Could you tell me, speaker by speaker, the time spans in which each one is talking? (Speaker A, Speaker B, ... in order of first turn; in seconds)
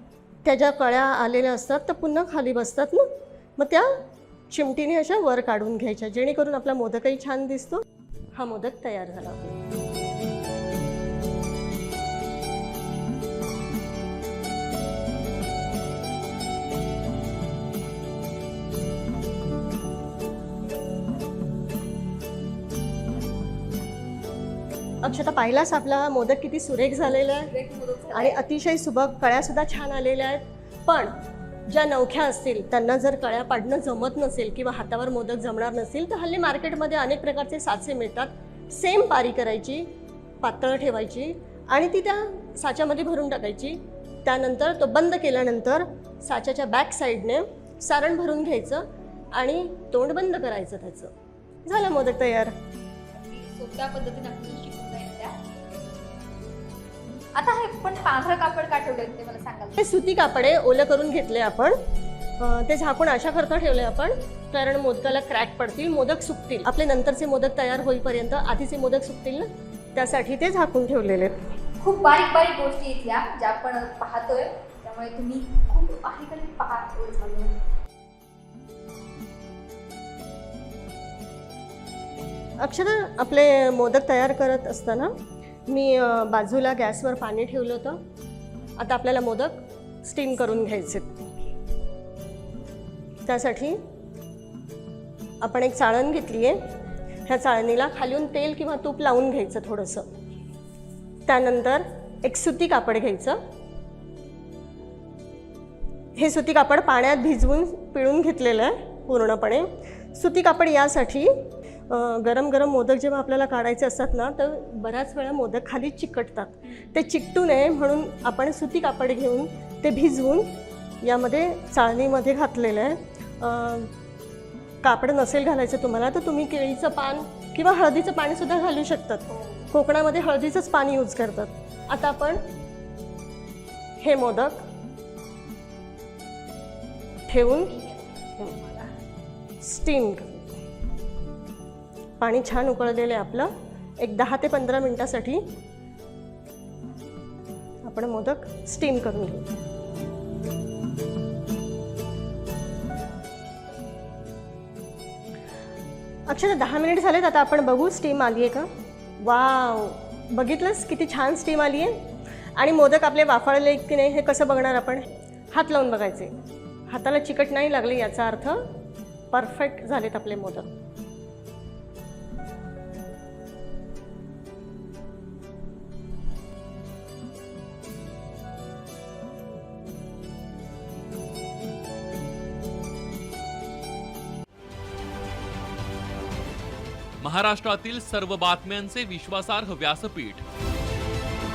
Speaker A: 0.4-7.8, 8.3-9.6, 25.0-27.5, 28.1-31.1, 31.7-39.9, 40.4-48.8, 49.4-51.1, 51.6-52.5, 59.8-61.8, 62.4-71.5, 82.6-85.1, 85.7-88.0, 88.8-91.2, 93.3-93.8, 95.4-96.6, 97.3-100.1, 101.3-103.4, 106.2-111.3, 111.9-120.5, 121.0-123.9, 124.8-132.4, 134.0-134.6, 137.3-137.8, 139.6-140.6, 142.2-145.4, 147.8-149.4, 156.3-158.7, 159.2-162.0, 162.6-166.3, 166.9-168.6, 169.3-170.7
Speaker B: 27.2-28.4, 53.1-55.3, 57.4-59.8, 71.8-77.6, 137.7-138.9
Speaker C: 187.2-190.4